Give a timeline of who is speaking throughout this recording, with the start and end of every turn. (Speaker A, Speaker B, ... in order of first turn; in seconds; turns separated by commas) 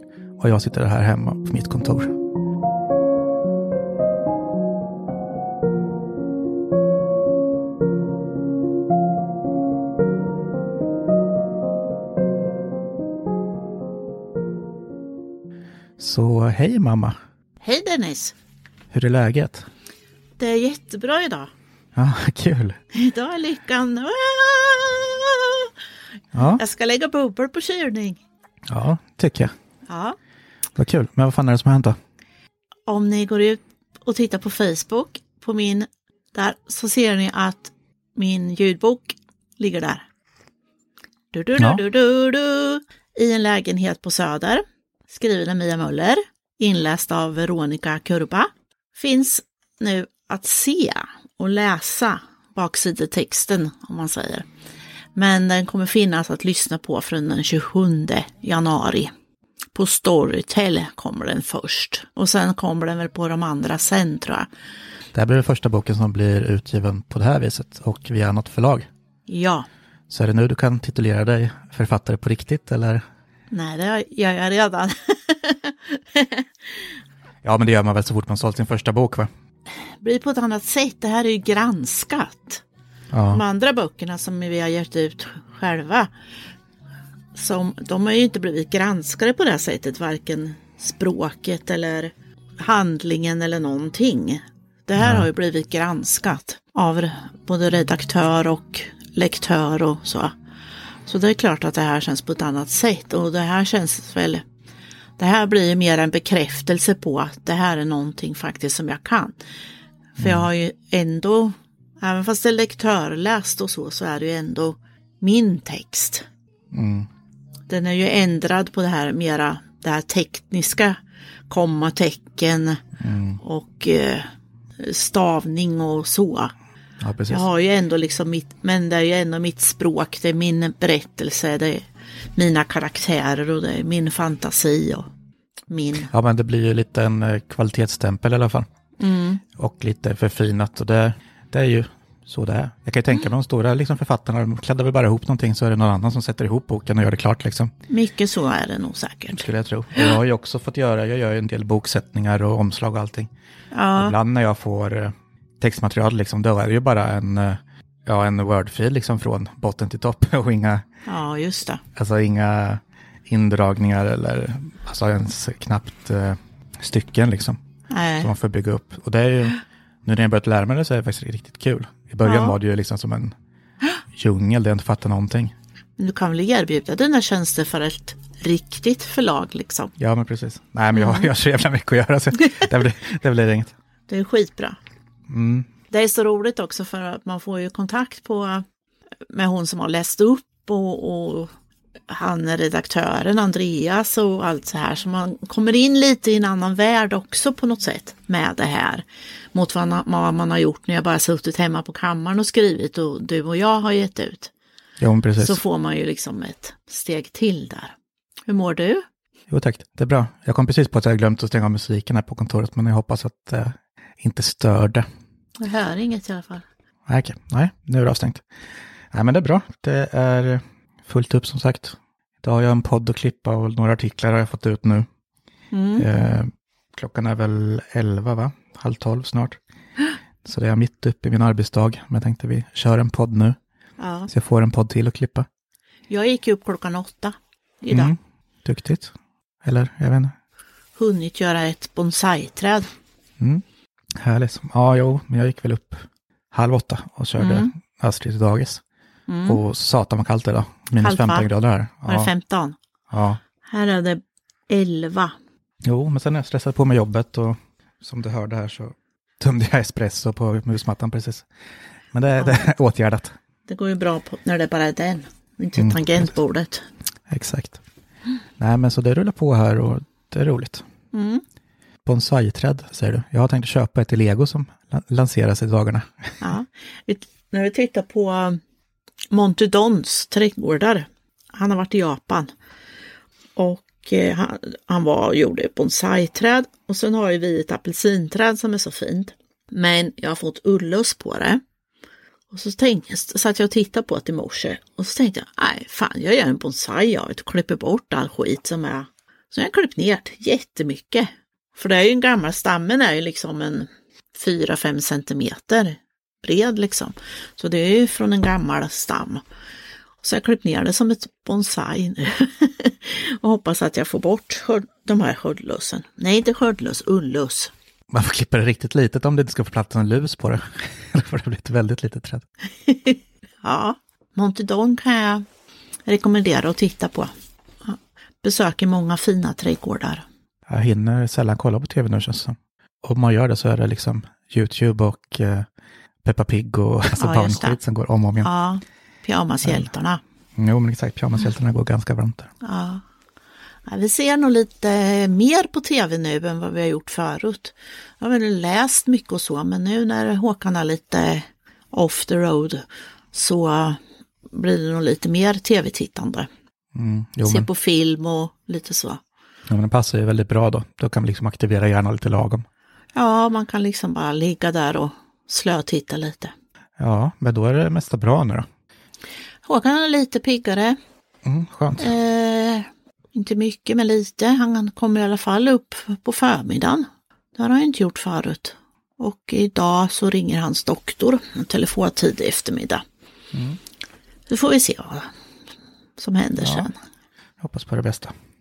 Speaker A: 0.4-2.1, Speaker A: 16.0-17.2, Speaker B: 17.6-18.3, Speaker A: 18.9-19.7, Speaker B: 20.4-21.5, Speaker A: 21.9-22.8, Speaker B: 22.9-25.7, Speaker A: 26.3-26.6, Speaker B: 26.4-28.2, Speaker A: 28.7-29.5, Speaker B: 29.9-30.2, Speaker A: 30.8-32.0, Speaker B: 32.9-40.0, Speaker B: 41.3-54.5, Speaker B: 55.1-59.1, Speaker B: 59.7-64.5, Speaker A: 65.1-68.9, Speaker B: 69.3-69.7, Speaker A: 70.1-73.0, Speaker B: 73.5-77.0, Speaker A: 77.4-79.3, Speaker B: 80.0-82.6, Speaker A: 83.1-83.4, Speaker B: 83.3-86.1, Speaker B: 87.3-100.3, Speaker A: 95.0-95.3, Speaker B: 101.0-104.4, Speaker B: 105.2-109.4, Speaker B: 110.2-116.2, Speaker A: 110.2-110.5, Speaker A: 116.7-117.1, Speaker B: 117.7-121.0, Speaker B: 121.5-122.8, Speaker A: 123.0-123.4, Speaker B: 123.4-126.5, Speaker A: 127.0-127.5, Speaker B: 127.3-135.1, Speaker B: 135.7-136.1, Speaker A: 136.0-138.7, Speaker B: 139.0-139.4, Speaker A: 139.5-147.7, Speaker B: 147.9-150.1, Speaker A: 149.3-153.3, Speaker B: 153.7-154.2, Speaker A: 153.9-160.8, Speaker B: 161.1-161.8, Speaker A: 161.9-167.6, Speaker B: 167.9-168.3, Speaker A: 168.2-173.3, Speaker B: 172.2-172.6, Speaker A: 174.1-175.5, Speaker B: 176.0-179.9, Speaker A: 180.0-183.7, Speaker B: 180.9-181.3, Speaker B: 184.1-184.8, Speaker A: 185.3-185.7, Speaker B: 185.9-188.6, Speaker B: 189.3-191.5, Speaker B: 192.1-204.5, Speaker A: 205.0-205.6, Speaker B: 205.4-207.9, Speaker B: 208.5-209.0, Speaker A: 209.5-215.0, Speaker B: 215.6-216.6, Speaker A: 217.1-218.4, Speaker A: 219.1-225.1, Speaker B: 225.7-226.1, Speaker A: 226.0-229.6, Speaker A: 230.4-233.6, Speaker B: 234.0-234.3, Speaker A: 234.3-235.4, Speaker B: 236.1-238.1, Speaker A: 237.9-240.3, Speaker B: 240.9-242.9, Speaker A: 244.2-248.8, Speaker B: 247.4-247.7, Speaker B: 249.3-249.6, Speaker A: 249.4-252.3, Speaker B: 251.0-251.5, Speaker B: 252.1-252.8, Speaker A: 253.1-253.4, Speaker B: 253.6-255.3, Speaker A: 255.8-261.5, Speaker A: 262.1-263.3, Speaker B: 262.4-262.7, Speaker B: 263.7-266.8, Speaker A: 265.7-266.3, Speaker A: 267.3-267.8, Speaker A: 268.6-270.8, Speaker B: 271.1-271.4, Speaker A: 272.0-276.3, Speaker B: 276.4-278.6, Speaker B: 279.3-282.5, Speaker B: 283.6-291.6, Speaker B: 292.5-309.4, Speaker B: 310.2-317.7, Speaker A: 318.1-322.4, Speaker B: 322.9-325.4, Speaker B: 326.1-327.3, Speaker B: 327.8-330.2, Speaker A: 330.7-335.7, Speaker A: 336.2-338.5, Speaker B: 337.1-337.8, Speaker B: 338.4-340.2, Speaker A: 340.6-342.5, Speaker B: 342.6-343.0, Speaker B: 343.9-356.5, Speaker A: 356.9-357.7, Speaker B: 357.4-359.2, Speaker A: 359.7-362.6, Speaker B: 363.1-366.5, Speaker A: 367.0-368.7, Speaker B: 369.6-371.0, Speaker A: 371.4-372.1, Speaker B: 372.0-383.0, Speaker A: 383.5-383.8, Speaker B: 384.5-385.3, Speaker B: 386.2-387.0, Speaker A: 386.6-386.9, Speaker A: 387.6-388.3